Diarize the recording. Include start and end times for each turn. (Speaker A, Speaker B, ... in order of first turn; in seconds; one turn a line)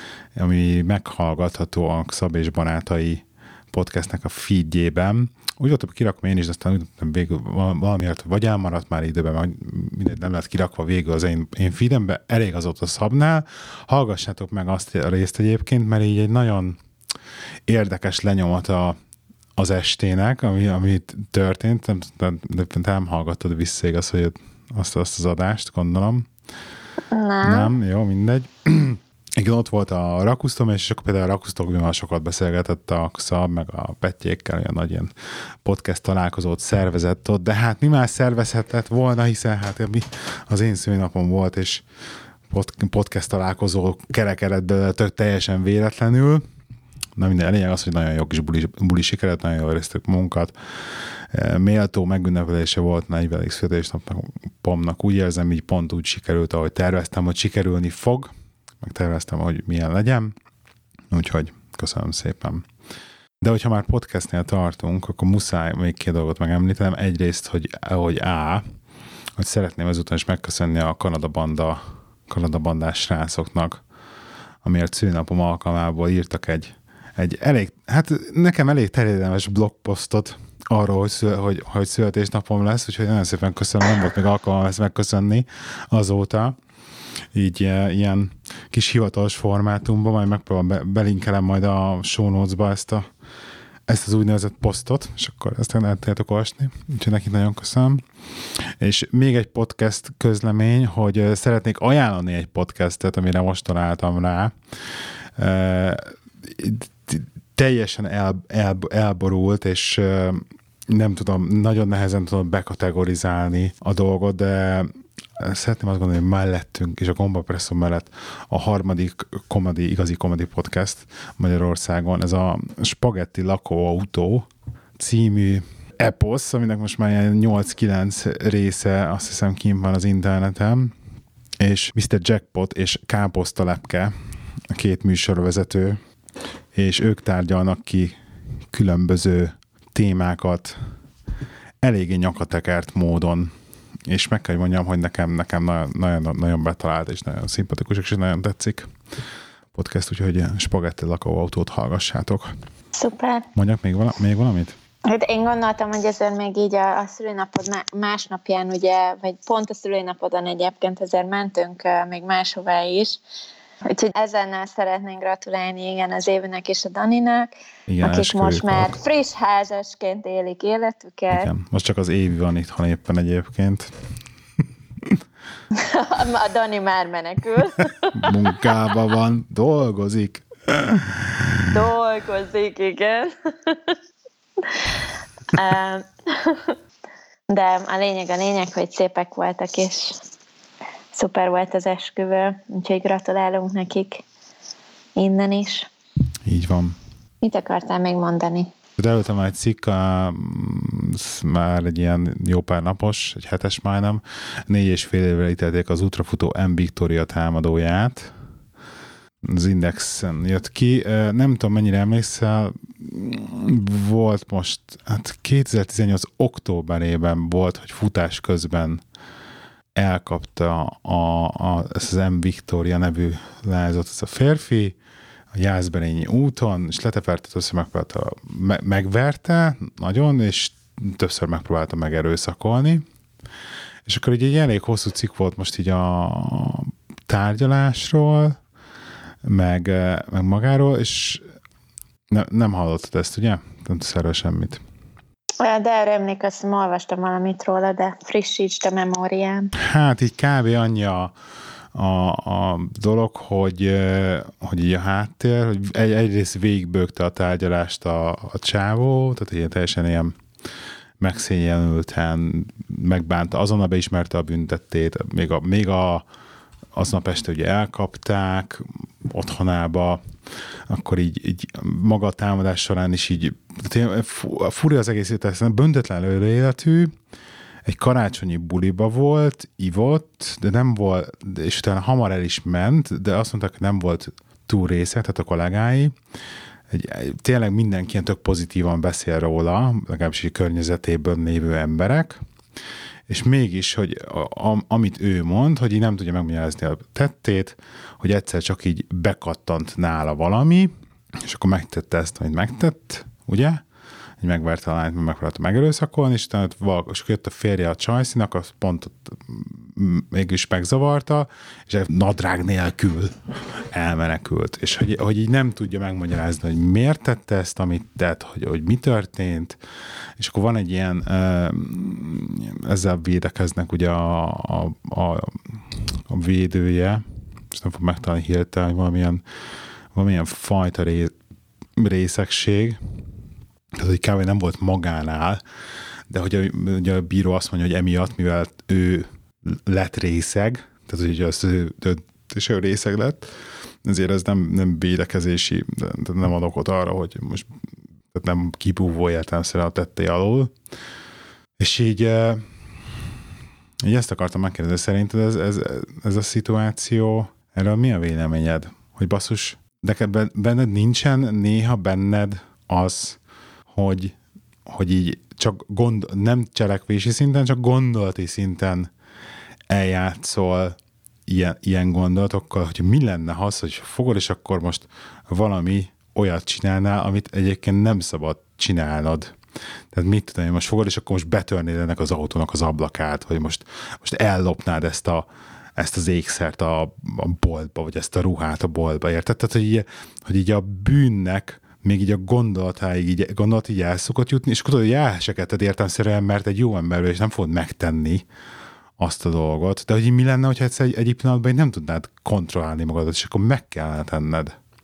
Speaker A: 0.3-16.8
Speaker A: 17.7-19.0
Speaker A: 19.6-26.3
Speaker B: 27.1-27.7
Speaker A: 27.4-35.1
Speaker A: 35.6-41.8
Speaker A: 42.5-46.4
Speaker A: 47.1-60.3
Speaker A: 61.1-62.6
Speaker A: 63.4-68.6
Speaker A: 69.4-73.8
Speaker A: 74.6-86.5
Speaker A: 87.3-93.0
Speaker A: 93.9-104.5
Speaker A: 105.4-130.9
Speaker A: 131.6-134.1
Speaker A: 134.7-136.0
Speaker A: 136.7-138.2
Speaker A: 138.7-140.8
Speaker A: 141.8-143.5
Speaker A: 144.1-148.9
Speaker A: 149.7-152.5
Speaker B: 153.0-153.4
Speaker A: 153.5-154.8
Speaker B: 155.0-163.2
Speaker B: 163.9-167.5
Speaker A: 167.9-169.0
Speaker B: 168.0-171.5
Speaker A: 171.3-173.9
Speaker B: 175.7-178.7
Speaker A: 178.1-181.7
Speaker B: 181.7-184.0
Speaker B: 184.7-185.0
Speaker B: 185.5-186.8
Speaker B: 187.5-190.2
Speaker B: 191.1-194.2
Speaker B: 195.2-195.9
Speaker A: 196.4-197.0
Speaker B: 197.4-198.7
Speaker A: 199.0-208.3
Speaker A: 209.4-219.0
Speaker A: 220.0-224.9
Speaker A: 225.5-233.0
Speaker A: 234.1-238.6
Speaker A: 239.4-241.4
Speaker A: 242.3-244.8
Speaker B: 245.6-249.7
Speaker A: 249.8-251.3
Speaker A: 251.9-260.4
Speaker A: 261.2-266.2
Speaker A: 266.9-270.2
Speaker A: 270.9-277.1
Speaker A: 277.9-286.1
Speaker A: 286.9-292.4
Speaker A: 293.3-300.9
Speaker A: 301.4-303.8
Speaker A: 304.4-319.8
Speaker A: 320.4-329.4
Speaker A: 330.1-331.3
Speaker A: 332.0-333.0
Speaker A: 333.9-335.6
Speaker A: 336.3-343.5
Speaker A: 344.0-347.7
Speaker A: 348.3-350.7
Speaker A: 351.8-352.6
Speaker A: 354.0-363.4
Speaker A: 363.9-369.1
Speaker A: 369.9-370.9
Speaker A: 371.5-379.5
Speaker A: 380.1-398.4
Speaker A: 399.2-404.7